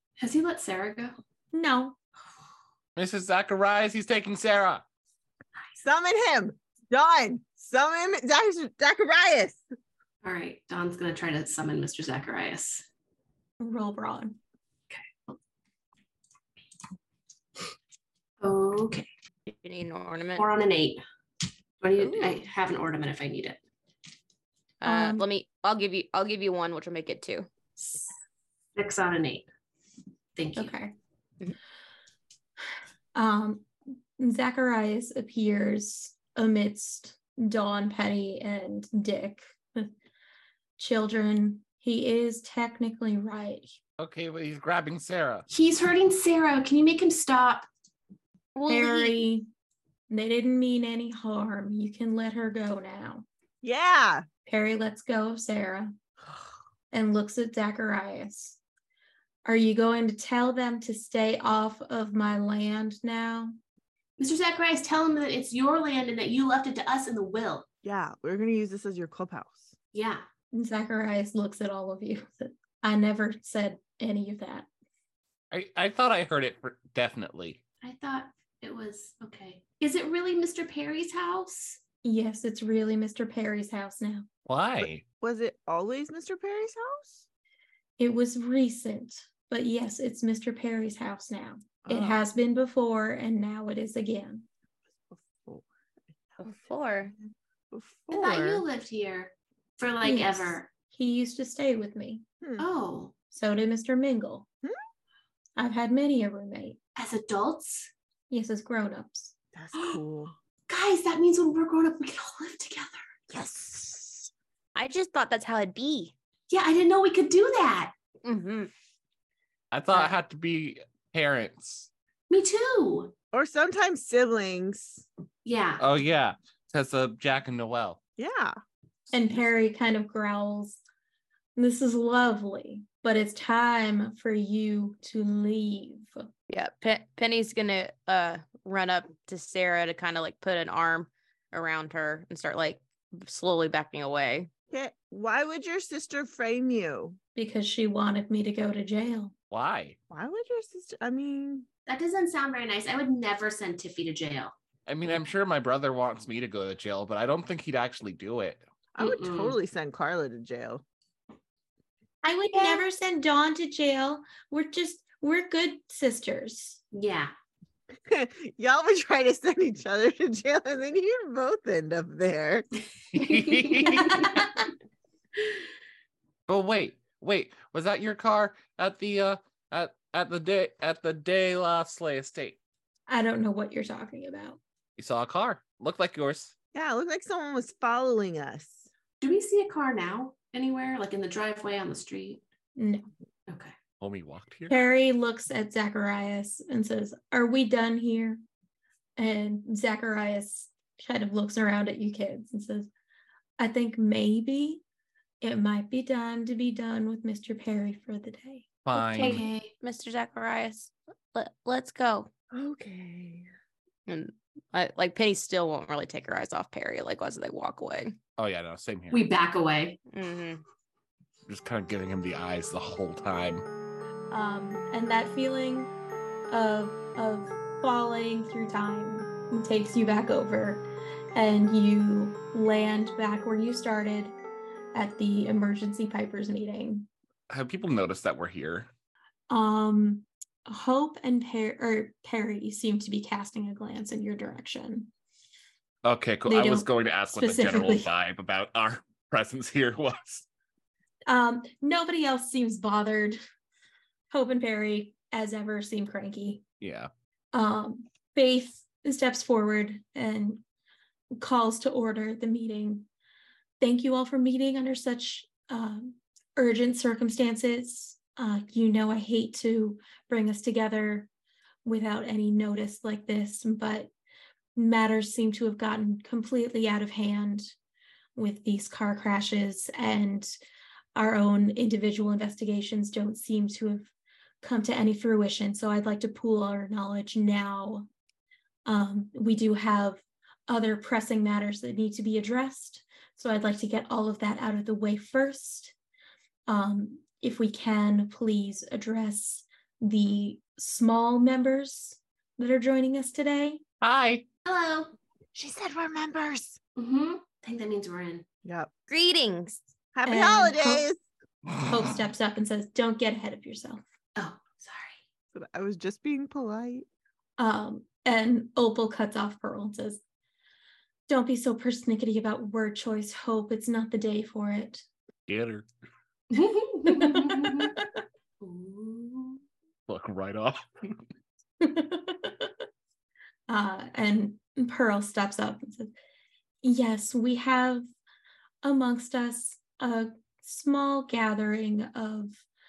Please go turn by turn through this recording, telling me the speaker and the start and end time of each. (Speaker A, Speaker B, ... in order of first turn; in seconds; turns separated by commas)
Speaker A: 0.2-1.2, Speaker B: 1.5-2.0, Speaker C: 3.0-4.8, Speaker D: 5.8-9.6, Speaker A: 10.2-12.8, Speaker B: 13.6-14.4, Speaker A: 18.4-19.1, Speaker E: 19.5-20.4, Speaker A: 20.3-21.0, Speaker A: 21.8-23.6, Speaker E: 22.0-22.4, Speaker E: 24.8-27.5, Speaker B: 24.8-25.3, Speaker A: 27.8-28.1, Speaker A: 28.8-29.5, Speaker A: 30.4-30.7, Speaker B: 30.6-30.9, Speaker B: 33.1-33.7, Speaker B: 34.2-39.9, Speaker B: 40.8-43.8, Speaker C: 44.0-45.5, Speaker A: 45.5-47.6, Speaker E: 48.5-49.2, Speaker B: 48.7-49.5, Speaker B: 50.1-53.2, Speaker D: 53.6-54.2, Speaker B: 54.5-55.9, Speaker B: 56.9-58.6, Speaker B: 59.4-63.5, Speaker A: 64.2-67.7, Speaker D: 67.8-69.7, Speaker A: 69.9-70.2, Speaker B: 70.5-74.7, Speaker C: 75.5-77.6, Speaker A: 77.8-81.8, Speaker B: 82.0-84.3, Speaker C: 84.5-85.0, Speaker D: 85.2-87.2, Speaker B: 88.0-94.5, Speaker D: 91.8-92.2, Speaker D: 95.1-95.7, Speaker D: 96.3-96.6, Speaker E: 96.4-97.1, Speaker D: 97.7-98.6, Speaker A: 98.1-100.7, Speaker B: 100.0-102.2, Speaker D: 102.4-102.7, Speaker A: 102.6-103.1, Speaker B: 103.3-104.5, Speaker B: 105.6-106.8, Speaker A: 107.0-107.9, Speaker B: 108.3-109.3, Speaker D: 109.5-110.3, Speaker A: 109.7-110.0, Speaker A: 110.7-113.0, Speaker E: 113.3-116.1, Speaker A: 116.5-117.9, Speaker E: 118.2-118.7, Speaker C: 119.7-121.9, Speaker A: 122.3-123.1, Speaker D: 123.3-125.0, Speaker A: 125.4-125.8, Speaker C: 125.8-128.0, Speaker D: 128.2-128.6, Speaker B: 129.1-130.8, Speaker B: 131.6-136.2, Speaker E: 136.5-144.5, Speaker D: 144.7-147.2, Speaker B: 147.3-149.3, Speaker C: 149.5-149.9, Speaker D: 150.1-151.7, Speaker A: 151.9-154.5, Speaker C: 154.9-158.6, Speaker D: 158.9-160.8, Speaker A: 159.0-159.6, Speaker B: 162.2-166.8, Speaker A: 162.5-162.8, Speaker A: 166.9-167.3, Speaker D: 167.9-172.7, Speaker C: 173.1-174.4, Speaker A: 173.2-174.1, Speaker B: 173.9-174.6, Speaker C: 176.5-182.6, Speaker B: 183.1-184.6, Speaker C: 185.0-186.5, Speaker D: 186.7-188.9, Speaker A: 189.2-192.4, Speaker B: 192.8-193.1, Speaker A: 193.5-193.7, Speaker C: 194.0-194.7, Speaker B: 194.7-198.4, Speaker B: 199.2-202.9, Speaker B: 203.6-204.8, Speaker B: 205.4-209.4, Speaker C: 208.8-209.4, Speaker E: 208.9-212.3, Speaker A: 209.2-209.7, Speaker D: 212.5-213.5, Speaker E: 214.1-218.2, Speaker C: 218.4-219.2, Speaker A: 219.1-220.0, Speaker E: 220.1-220.6, Speaker C: 221.5-223.6, Speaker B: 224.3-225.9, Speaker B: 226.5-230.8, Speaker B: 231.3-234.3, Speaker B: 234.9-237.1, Speaker C: 237.5-238.9, Speaker B: 239.5-245.1, Speaker C: 246.0-250.4, Speaker B: 246.4-248.1, Speaker B: 251.3-253.4, Speaker B: 254.3-256.6, Speaker C: 256.8-257.1, Speaker B: 257.5-260.6, Speaker B: 261.3-263.1, Speaker B: 263.8-271.3, Speaker B: 271.8-274.1, Speaker B: 274.8-277.7, Speaker B: 278.4-280.5, Speaker B: 281.1-288.1, Speaker B: 288.9-295.9, Speaker B: 296.7-303.8, Speaker C: 304.0-304.4, Speaker A: 304.6-305.1, Speaker D: 305.5-306.8, Speaker A: 307.0-308.4, Speaker D: 308.6-308.9, Speaker E: 309.1-309.8, Speaker D: 310.1-311.2, Speaker B: 310.2-311.1, Speaker B: 311.9-314.0, Speaker A: 314.4-315.2, Speaker D: 315.5-317.1, Speaker B: 317.6-320.2, Speaker B: 321.3-325.0, Speaker C: 325.5-325.9, Speaker A: 326.5-327.9, Speaker B: 327.1-328.2, Speaker A: 328.6-329.6, Speaker C: 330.1-331.1, Speaker B: 331.8-332.7, Speaker B: 333.7-336.1, Speaker B: 336.8-338.1, Speaker B: 338.8-342.6